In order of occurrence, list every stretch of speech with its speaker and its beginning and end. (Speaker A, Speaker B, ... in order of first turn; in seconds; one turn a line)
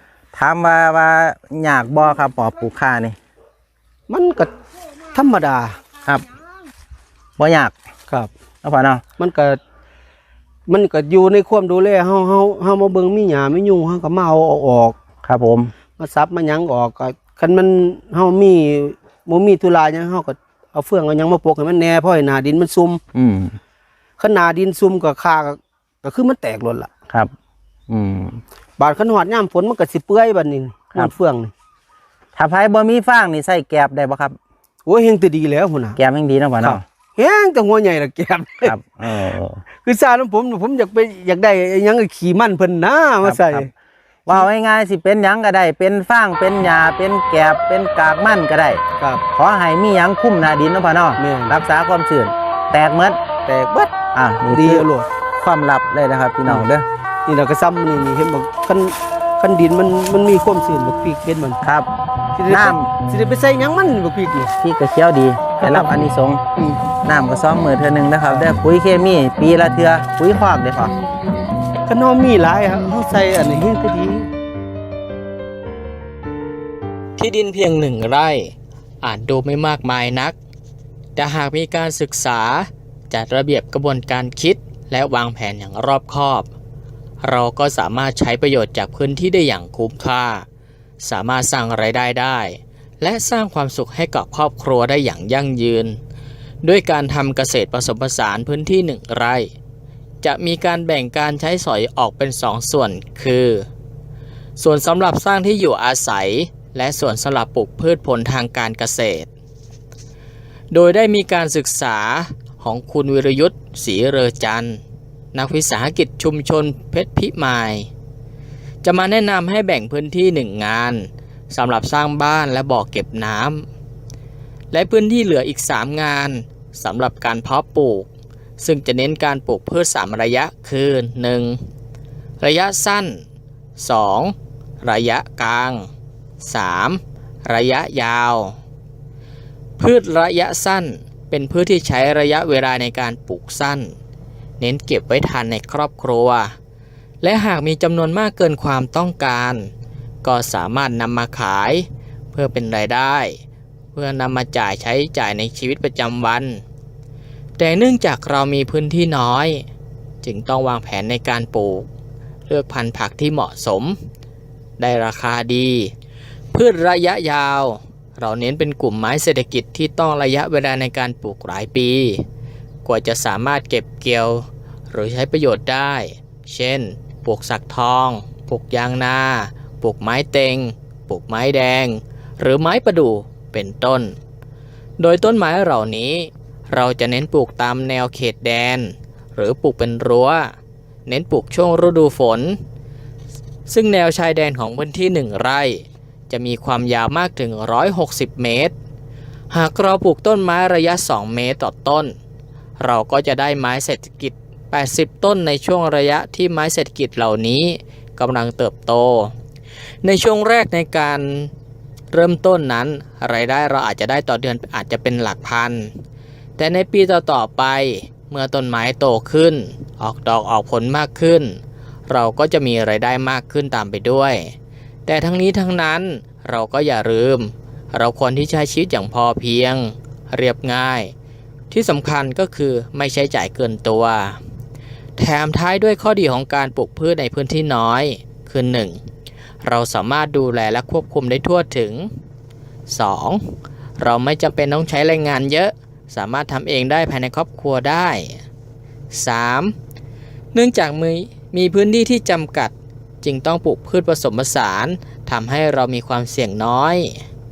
Speaker A: 0.3-3.1
Speaker B: 4.1-4.5
Speaker B: 5.1-5.8
Speaker A: 7.4-7.7
Speaker A: 8.6-9.0
Speaker B: 9.2-9.6
Speaker B: 10.7-14.9
Speaker A: 15.2-15.7
Speaker B: 16.0-23.0
Speaker A: 23.1-23.6
Speaker B: 24.2-26.9
Speaker A: 27.9-28.4
Speaker B: 28.8-31.5
Speaker A: 32.4-34.4
Speaker B: 34.9-36.0
Speaker A: 36.0-36.8
Speaker B: 36.6-38.7
Speaker A: 38.6-39.6
Speaker B: 39.8-43.7
Speaker A: 43.2-43.7
Speaker A: 44.2-48.8
Speaker A: 49.3-53.2
Speaker B: 51.2-51.5
Speaker B: 53.5-53.9
Speaker A: 54.1-56.9
Speaker B: 54.5-55.1
Speaker B: 57.2-61.6
Speaker A: 61.6-61.9
Speaker B: 62.3-64.5
Speaker A: 62.5-62.9
Speaker A: 64.6-70.9
Speaker B: 65.6-65.9
Speaker B: 71.8-74.3
Speaker C: 77.2-80.3
Speaker C: 81.2-86.5
Speaker C: 87.2-90.5
Speaker C: 91.0-96.0
Speaker C: 96.6-99.5
Speaker C: 100.2-103.7
Speaker C: 104.6-109.3
Speaker C: 110.7-114.8
Speaker C: 115.3-117.9
Speaker C: 118.8-123.7
Speaker C: 124.7-131.7
Speaker C: 132.4-133.2
Speaker C: 133.8-135.9
Speaker C: 136.4-138.6
Speaker C: 139.8-143.9
Speaker C: 144.6-146.5
Speaker C: 147.2-149.7
Speaker C: 150.2-153.4
Speaker C: 153.9-156.6
Speaker C: 157.6-159.6
Speaker C: 160.2-161.9
Speaker C: 162.5-164.0
Speaker C: 164.8-165.9
Speaker C: 166.5-172.2
Speaker C: 172.8-184.2
Speaker C: 185.0-190.5
Speaker C: 191.1-192.6
Speaker C: 193.7-198.7
Speaker C: 199.5-202.1
Speaker C: 202.8-209.3
Speaker C: 210.0-211.5
Speaker C: 212.1-215.9
Speaker C: 216.6-224.5
Speaker C: 225.1-231.1
Speaker C: 231.7-234.4
Speaker C: 235.2-239.0
Speaker C: 239.6-242.1
Speaker C: 242.9-248.4
Speaker C: 249.1-249.7
Speaker C: 250.5-257.2